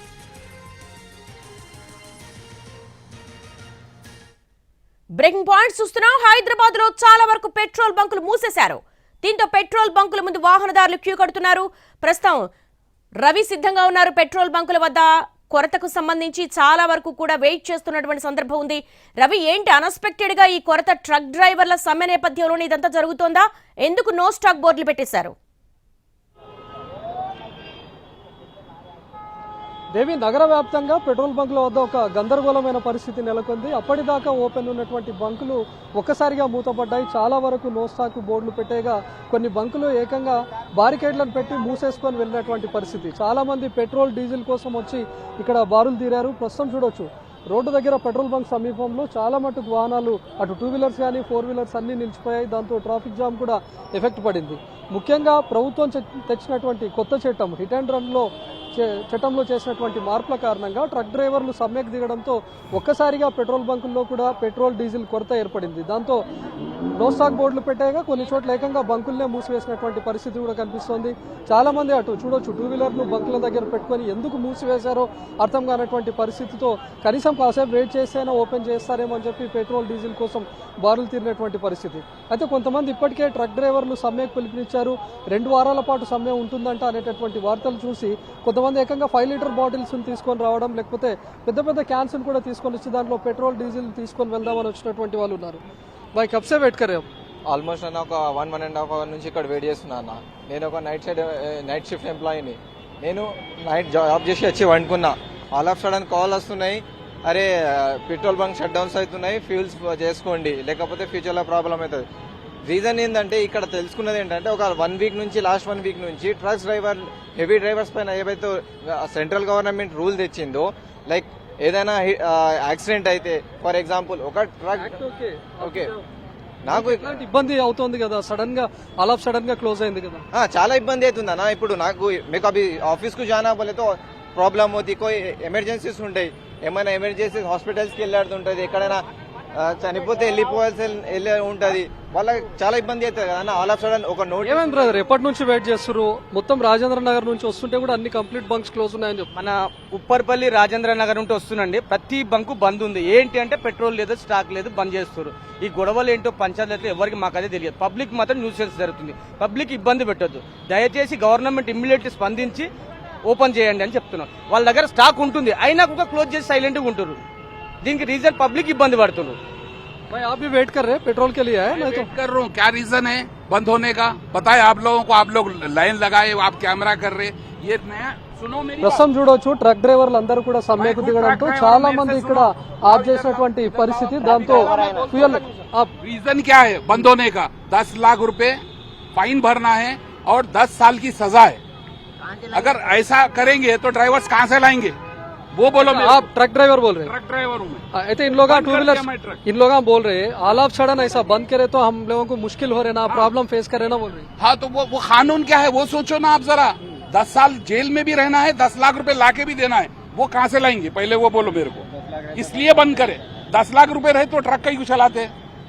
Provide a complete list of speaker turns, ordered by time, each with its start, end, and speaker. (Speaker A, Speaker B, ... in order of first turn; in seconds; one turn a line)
Speaker A: 5.2-12.5
Speaker A: 13.2-25.4
Speaker B: 29.9-66.2
Speaker B: 66.9-95.6
Speaker B: 96.2-97.0
Speaker C: 97.5-112.0
Speaker C: 112.7-124.9
Speaker B: 124.8-126.0
Speaker C: 125.6-125.9
Speaker C: 126.7-127.1
Speaker B: 126.7-130.2
Speaker C: 130.3-139.0
Speaker C: 139.6-144.9
Speaker B: 144.4-149.3
Speaker D: 149.3-162.7
Speaker D: 163.3-167.2
Speaker D: 167.8-169.4
Speaker B: 170.1-172.1
Speaker E: 171.8-179.0
Speaker B: 178.8-185.9
Speaker E: 180.8-183.5
Speaker E: 186.0-188.6
Speaker E: 189.1-191.6
Speaker E: 192.4-195.0
Speaker E: 195.5-196.2
Speaker B: 195.8-197.1
Speaker E: 197.1-197.8
Speaker B: 197.9-204.3
Speaker E: 198.4-199.4
Speaker E: 204.4-215.3